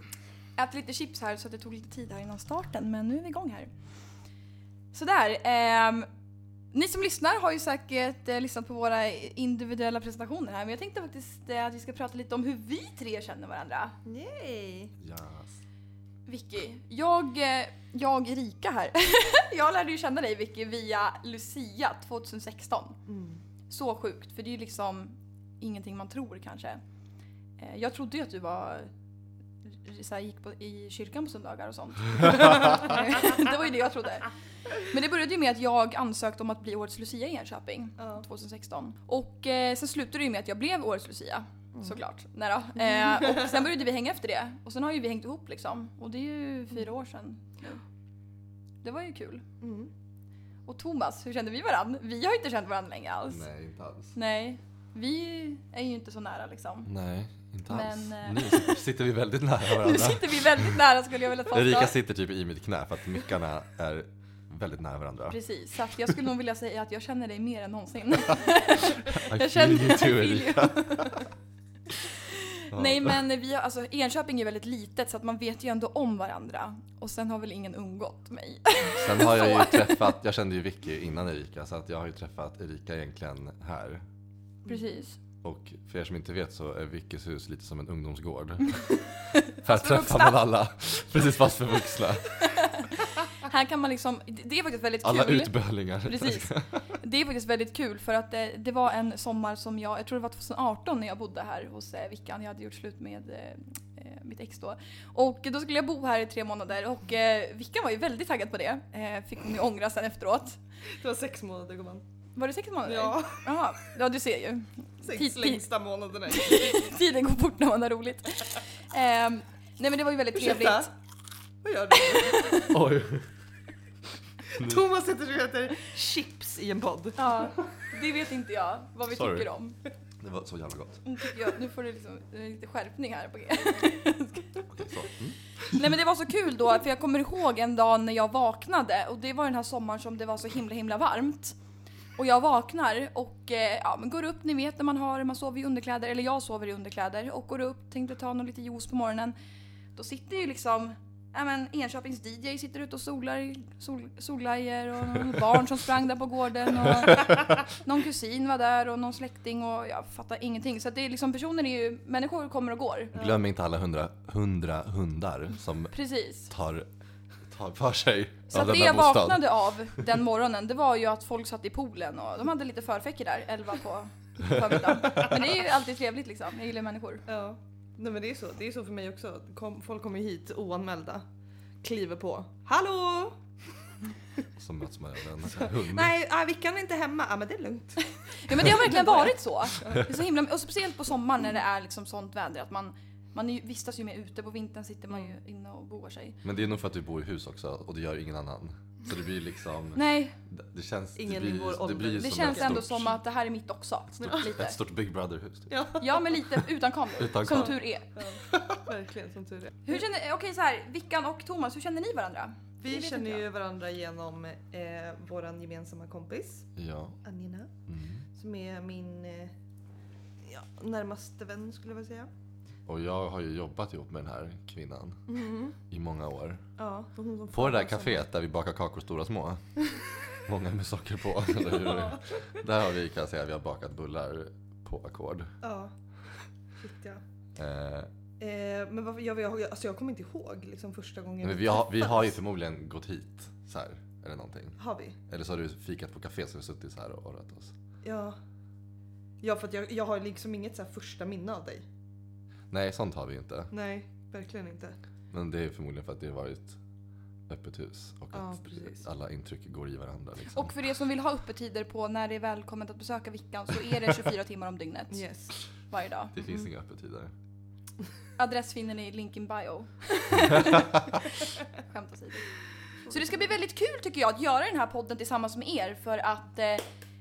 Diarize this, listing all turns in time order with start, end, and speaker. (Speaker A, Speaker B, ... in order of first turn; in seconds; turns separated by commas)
Speaker A: 0.6-3.7, Speaker A: 4.9-6.1, Speaker A: 6.7-13.9, Speaker B: 14.1-14.9, Speaker C: 15.0-15.6, Speaker A: 16.3-23.0, Speaker B: 23.1-23.4, Speaker A: 23.7-26.8, Speaker A: 27.6-28.9, Speaker A: 29.6-47.8, Speaker B: 38.0-38.2, Speaker B: 42.8-43.5, Speaker A: 48.8-49.4, Speaker B: 49.6-49.9, Speaker A: 50.6-53.5, Speaker C: 53.3-54.1, Speaker A: 54.1-56.9, Speaker C: 56.9-60.8, Speaker A: 57.7-58.8, Speaker A: 59.7-61.9, Speaker C: 61.5-65.4, Speaker A: 65.3-71.3, Speaker C: 69.0-71.2, Speaker A: 72.0-80.1, Speaker C: 72.7-73.2, Speaker C: 79.0-84.0, Speaker A: 84.6-85.2, Speaker C: 85.4-88.8, Speaker A: 88.7-90.4, Speaker C: 89.6-92.3, Speaker A: 92.4-110.6, Speaker C: 95.0-96.9, Speaker B: 110.9-112.0, Speaker A: 112.3-115.7, Speaker B: 112.8-113.5, Speaker B: 115.0-116.7, Speaker A: 116.3-120.9, Speaker B: 120.3-120.9, Speaker B: 121.6-122.6, Speaker A: 122.0-122.8, Speaker C: 122.7-123.3, Speaker B: 124.5-127.3, Speaker C: 124.6-124.8, Speaker A: 127.2-129.8, Speaker C: 129.1-129.5, Speaker C: 130.2-131.0, Speaker A: 131.0-134.6, Speaker C: 134.7-135.8, Speaker A: 135.7-141.6, Speaker A: 142.2-149.3, Speaker A: 149.9-163.1, Speaker C: 157.1-157.3, Speaker B: 163.1-163.5, Speaker C: 163.1-165.9, Speaker A: 165.9-166.5, Speaker C: 166.5-166.9, Speaker C: 167.5-170.0, Speaker A: 168.5-177.2, Speaker C: 174.4-175.5, Speaker B: 177.3-181.2, Speaker B: 181.8-183.4, Speaker C: 184.6-186.1, Speaker B: 185.4-190.0, Speaker A: 188.4-196.4, Speaker C: 196.4-203.2, Speaker A: 199.9-200.3, Speaker B: 201.2-202.9, Speaker A: 202.2-204.8, Speaker C: 204.2-205.7, Speaker B: 204.2-204.5, Speaker B: 205.7-206.6, Speaker A: 206.0-208.1, Speaker C: 207.2-207.8, Speaker B: 207.5-210.0, Speaker C: 208.5-208.8, Speaker A: 209.8-213.4, Speaker B: 212.8-216.7, Speaker C: 216.8-217.2, Speaker B: 217.2-217.7, Speaker C: 217.9-218.2, Speaker B: 218.3-219.5, Speaker B: 220.4-222.3, Speaker C: 222.9-225.2, Speaker B: 225.3-225.8, Speaker C: 225.9-226.6, Speaker B: 226.8-228.2, Speaker C: 227.5-229.6, Speaker C: 230.4-235.5, Speaker B: 231.6-232.2, Speaker B: 235.6-235.9, Speaker B: 236.8-237.2, Speaker C: 237.6-238.1, Speaker B: 238.4-242.3, Speaker C: 241.4-244.8, Speaker B: 244.8-245.2, Speaker C: 245.3-247.7, Speaker B: 248.0-248.3, Speaker B: 249.4-251.8, Speaker C: 252.7-253.7, Speaker B: 253.7-254.9, Speaker C: 255.3-256.8, Speaker C: 257.5-260.7, Speaker B: 258.3-259.1, Speaker A: 260.5-265.2, Speaker B: 265.1-265.5, Speaker A: 265.9-266.4, Speaker C: 266.3-267.3, Speaker A: 268.4-272.5, Speaker C: 270.4-271.0, Speaker B: 273.1-273.5, Speaker A: 273.1-276.9